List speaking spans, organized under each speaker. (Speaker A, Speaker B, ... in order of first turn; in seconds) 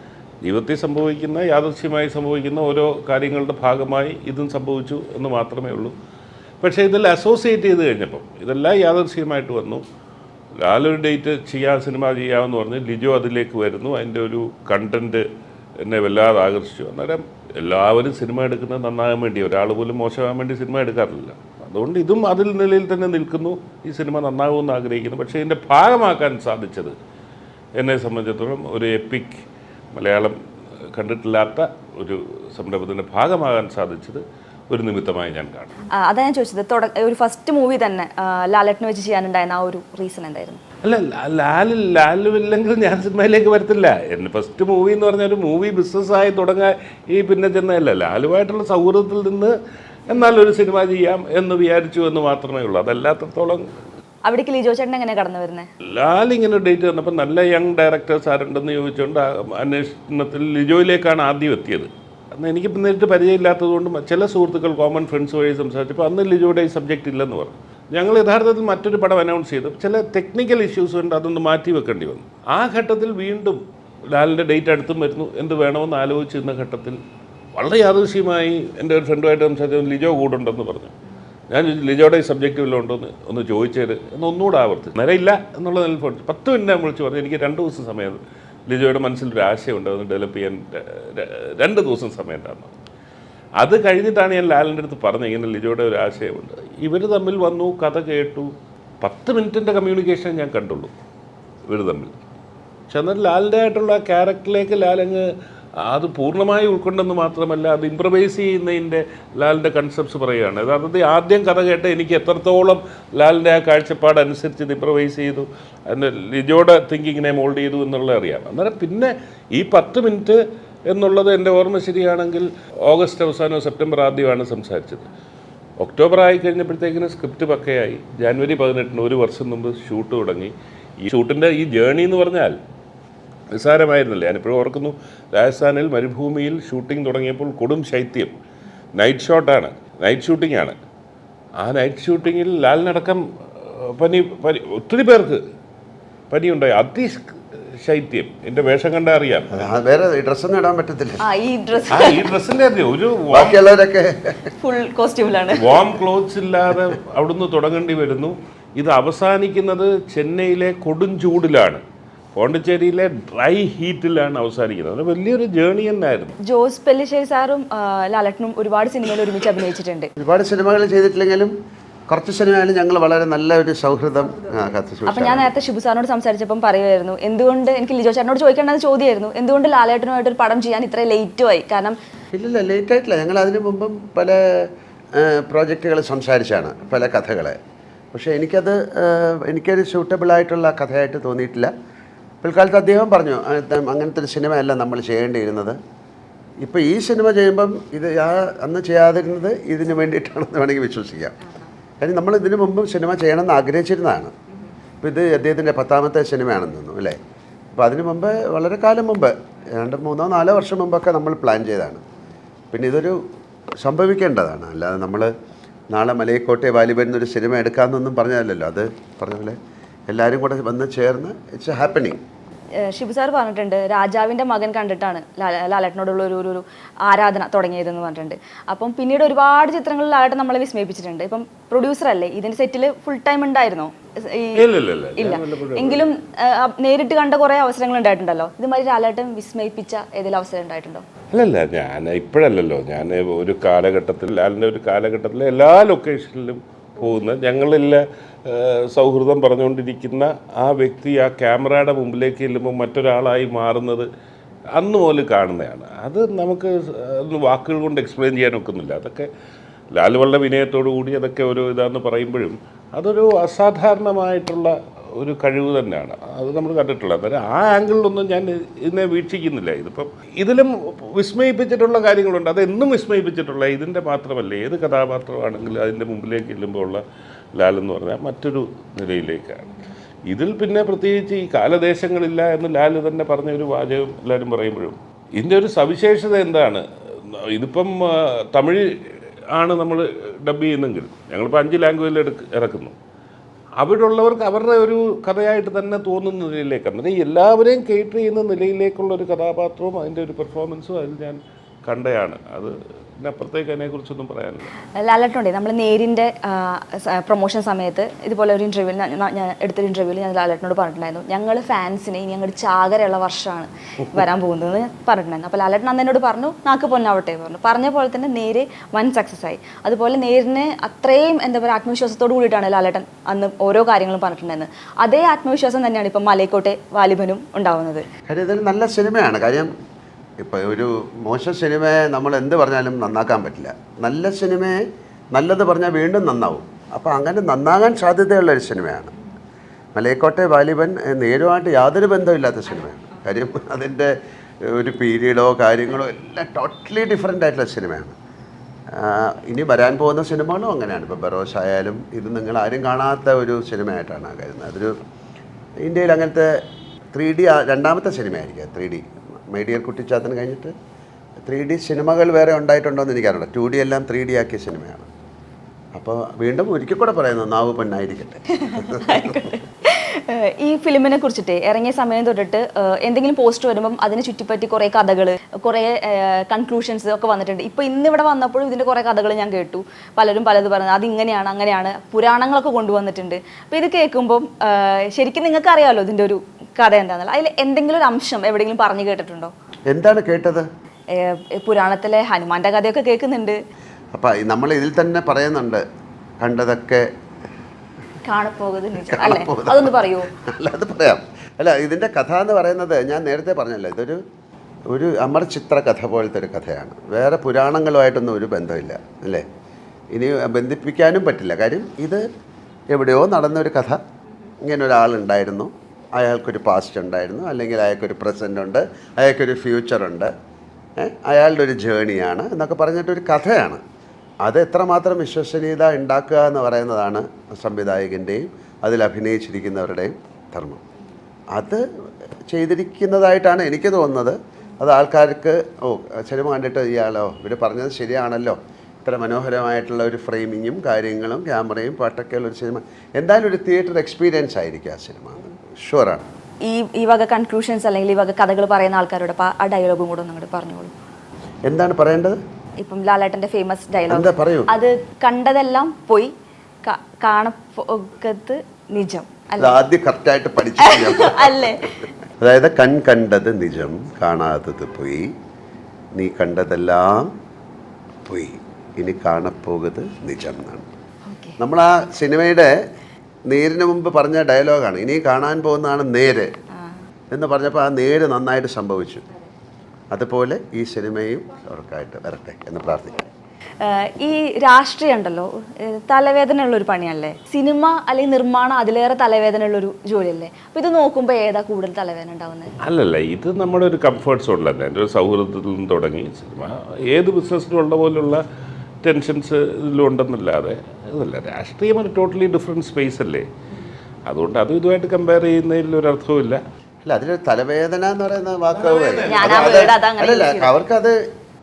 Speaker A: 0.4-6.0, 6.6-9.8, 10.6-15.2, 15.8-26.9, 27.8-29.4, 29.9-30.4, 30.9-35.7, 40.8-49.5, 50.1-53.6, 55.9-73.6, 74.1-77.0, 77.6-80.9, 81.5-92.7, 93.6-100.9, 101.7-102.1, 102.9-105.3, 105.8-125.1, 125.8-132.6, 133.5-138.3, 139.0-140.8, 141.6-145.4, 146.3-149.7, 151.9-153.6, 155.5-161.8, 162.3-166.3, 234.6-236.1, 241.3-254.1, 254.7-259.3, 259.9-277.0, 277.6-279.7, 280.3-292.9, 293.8-304.7, 492.8-498.4, 499.0-503.4, 504.3-506.6, 508.7-509.9
Speaker B: 36.0-40.6, 54.2-55.7, 151.2-152.2, 154.6-155.7, 166.4-170.1, 175.1-181.9, 222.8-234.6, 235.2-241.0, 305.0-328.1, 368.5-389.5, 391.1-393.6, 398.2-400.3, 446.6-450.9, 452.8-456.3, 456.8-459.8, 460.8-461.9, 471.2-471.6, 483.8-492.7, 509.3-510.7
Speaker C: 149.5-151.2, 153.3-154.5, 170.2-171.5, 172.1-175.5, 182.3-184.4, 185.2-187.6, 188.1-191.7, 192.4-195.8, 196.6-201.4, 202.0-204.3, 205.0-207.2, 207.8-212.0, 212.7-213.2, 213.8-215.3, 215.9-219.6, 220.1-222.2, 328.3-329.7, 330.4-334.8, 335.3-339.1, 339.9-344.1, 344.6-348.1, 348.9-354.9, 355.8-356.5, 357.1-360.7, 361.4-365.1, 365.9-369.4, 389.9-390.6, 394.1-395.8, 396.4-397.1, 399.1-404.2, 404.9-409.4, 410.1-412.2, 412.9-414.0, 414.6-420.3, 421.0-423.8, 424.4-430.8, 431.5-431.8, 432.5-446.2, 451.6-452.4, 454.1-454.7, 459.6-461.8, 462.4-465.3, 466.1-467.3, 468.2-470.9, 471.6-472.7, 473.5-476.5, 477.3-479.2, 480.1-483.3, 507.0-511.2